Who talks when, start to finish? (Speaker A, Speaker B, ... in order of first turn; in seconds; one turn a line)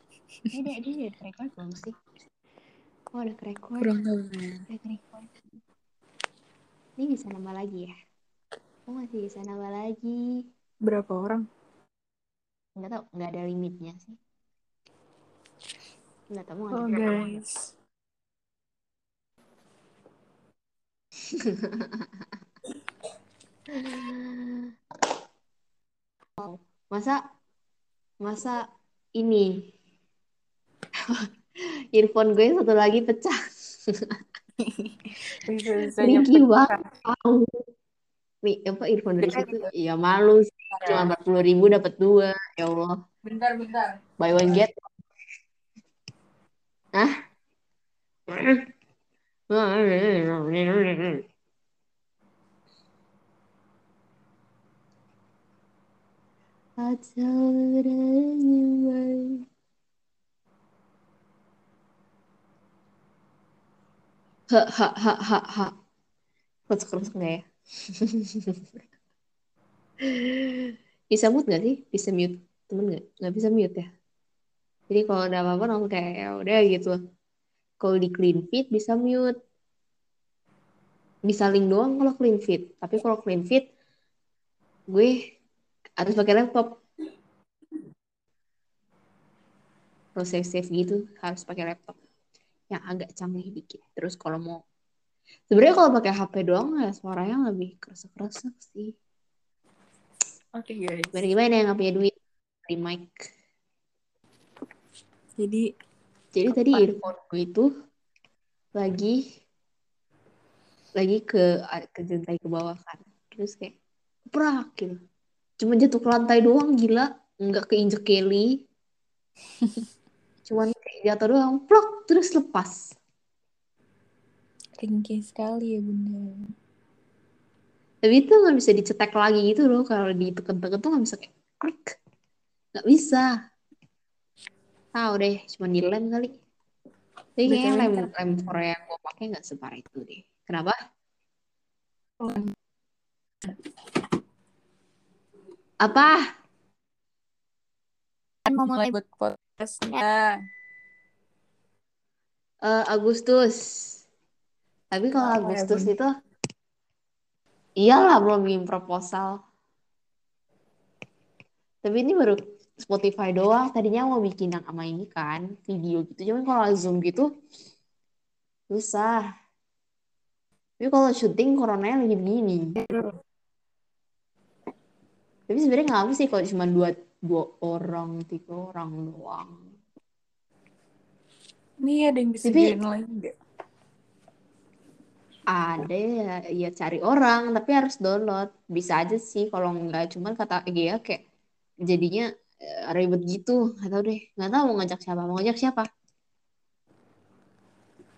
Speaker A: 0.5-1.9
Speaker A: 3.1-3.9
Speaker B: 3.8-4.7
Speaker A: 4.7-5.4
Speaker A: 7.0-7.9
Speaker A: 8.9-10.3
Speaker B: 10.8-11.4
Speaker A: 12.8-14.2
Speaker A: 16.3-17.4
Speaker B: 16.7-17.7
Speaker A: 21.6-21.9
Speaker A: 23.8-24.6
Speaker A: 26.4-27.2
Speaker A: 28.2-28.6
Speaker A: 29.2-29.5
Speaker A: 31.9-33.4
Speaker A: 33.9-34.1
Speaker B: 34.6-36.9
Speaker A: 36.0-37.5
Speaker A: 38.4-43.0
Speaker B: 39.2-39.7
Speaker B: 40.7-41.1
Speaker B: 43.2-44.5
Speaker A: 44.2-44.7
Speaker A: 48.3-48.6
Speaker A: 49.5-51.2
Speaker A: 56.8-59.4
Speaker A: 64.5-65.7
Speaker A: 66.7-67.4
Speaker A: 68.0-68.6
Speaker A: 70.0-73.9
Speaker A: 74.9-77.0
Speaker A: 77.8-79.3
Speaker A: 81.3-83.6
Speaker A: 86.0-86.7
Speaker A: 90.2-92.0
Speaker A: 92.7-94.6
Speaker A: 95.5-98.9
Speaker B: 100.6-101.2
Speaker A: 101.1-102.1
Speaker A: 102.7-103.2
Speaker B: 105.4-105.7
Speaker A: 106.3-107.7
Speaker B: 106.5-107.0
Speaker A: 108.8-109.2
Speaker A: 111.0-113.7
Speaker A: 114.3-115.0
Speaker A: 115.6-118.5
Speaker A: 120.5-122.8
Speaker B: 124.8-126.5
Speaker A: 128.0-131.9
Speaker A: 132.8-133.2
Speaker A: 134.9-136.3
Speaker A: 137.4-140.8
Speaker B: 137.4-138.1
Speaker A: 145.8-146.2
Speaker B: 148.5-150.3
Speaker A: 152.6-154.0
Speaker A: 154.9-156.1
Speaker B: 155.2-155.9
Speaker A: 157.8-159.4
Speaker A: 161.8-167.3
Speaker A: 168.7-169.2
Speaker A: 170.8-172.7
Speaker A: 175.5-179.6
Speaker B: 181.8-183.3
Speaker A: 182.4-182.8
Speaker A: 185.5-191.2
Speaker A: 191.9-192.2
Speaker A: 192.9-195.9